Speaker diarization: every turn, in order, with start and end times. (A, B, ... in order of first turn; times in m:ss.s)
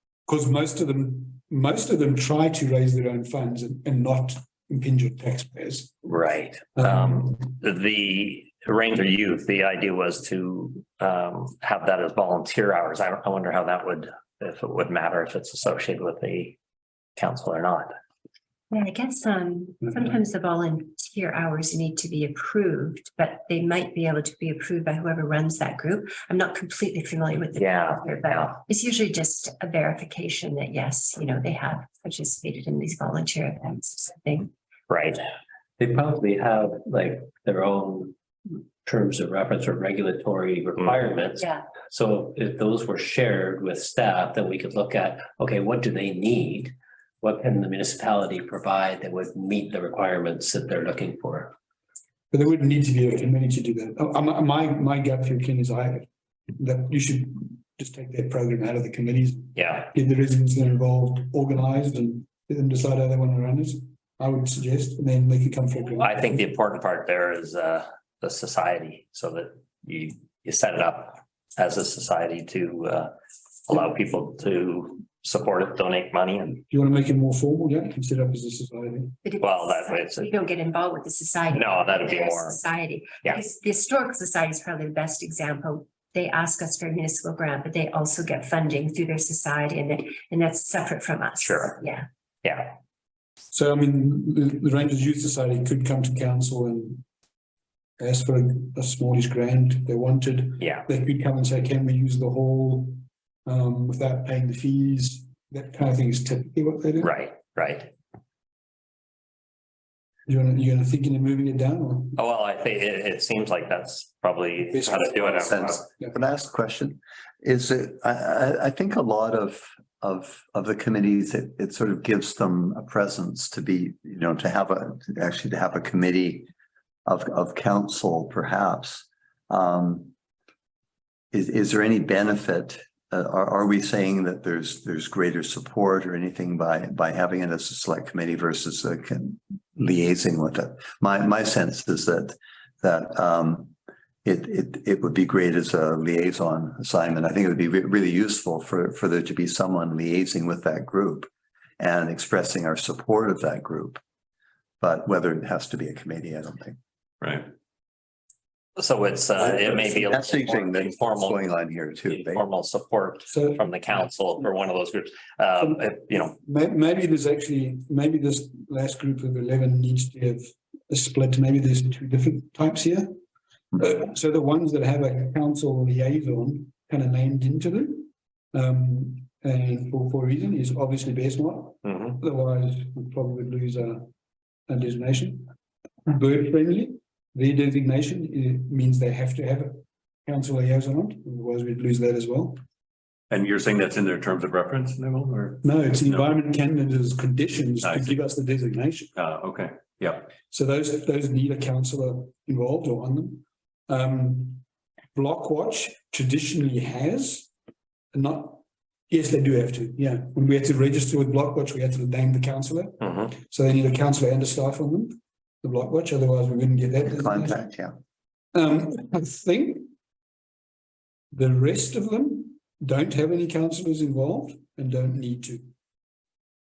0:00.3-0:06.0 A
0:06.0-0:16.6 B
0:06.8-0:07.3 A
0:17.2-0:17.9 B
0:18.7-0:34.5 C
0:27.6-0:28.5 B
0:34.9-0:35.2 B
0:35.8-0:38.2 D
0:38.8-0:51.5 D
0:41.4-0:41.7 C
0:52.3-1:06.4 A
0:59.6-0:59.9 B
1:06.0-1:13.1 B
1:13.7-1:16.6 B
1:16.7-1:19.2 A
1:19.2-1:32.1 C
1:19.4-1:20.3 B
1:21.5-1:22.6 B
1:31.4-1:31.8 B
1:32.4-1:32.8 B
1:33.5-1:37.0 A
1:38.0-1:47.1 A
1:40.6-1:40.9 B
1:47.0-1:47.9 B
1:50.3-1:52.2 A
1:52.2-1:55.8 B
1:54.7-1:55.4 A
1:55.3-2:06.5 E
2:07.1-2:10.1 E
2:11.3-2:23.7 E
2:24.2-2:34.0 E
2:34.8-2:36.8 E
2:37.2-2:37.5 F
2:38.8-2:41.4 B
2:39.4-2:42.5 E
2:42.1-2:46.4 B
2:43.3-2:43.7 A
2:45.6-2:53.1 A
2:53.8-3:04.1 A
3:01.9-3:02.1 B
3:04.7-3:05.5 A
3:06.1-3:12.6 A
3:13.3-3:16.3 F
3:15.6-3:19.1 A
3:17.8-3:18.2 F
3:19.2-3:20.3 F
3:20.5-3:24.6 A
3:25.2-3:27.5 A
3:28.1-3:37.6 A
3:33.0-3:33.3 B
3:37.0-3:38.0 E
3:38.5-3:39.9 A
3:41.3-3:45.6 A